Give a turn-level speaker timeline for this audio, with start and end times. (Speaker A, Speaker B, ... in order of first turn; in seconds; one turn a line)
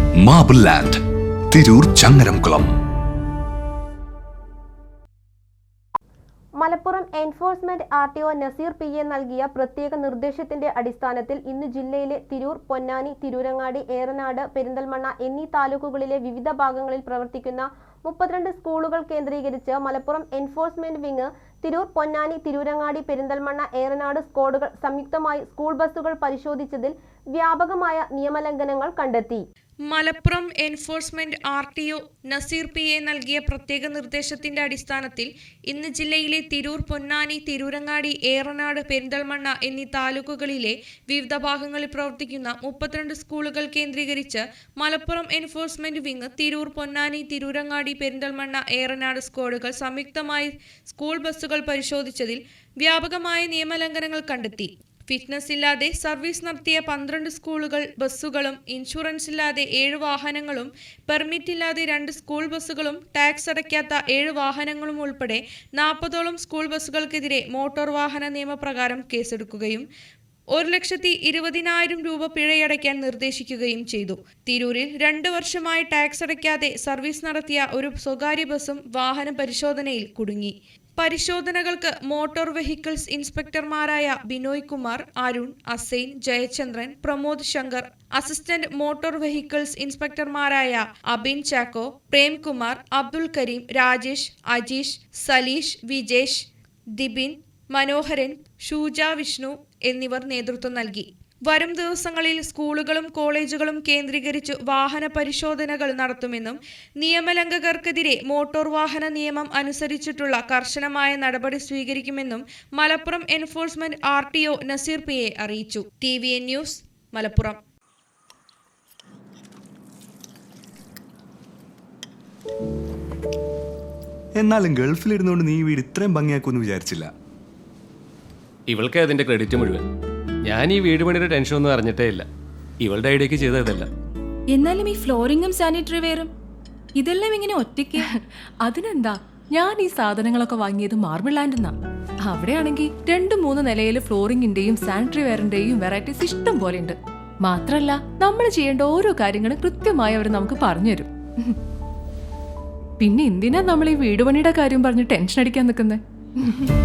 Speaker A: 0.2-1.0
Speaker A: 1.5-2.7
Speaker B: 6.6-29.4
Speaker C: 29.9-69.9
Speaker C: 70.5-117.6
Speaker D: 124.3-127.1
Speaker E: 128.7-129.8
Speaker E: 130.4-132.3
Speaker E: 132.8-133.9
Speaker F: 134.5-136.3
Speaker F: 136.9-138.1
Speaker G: 138.0-151.6
Speaker G: 153.0-156.7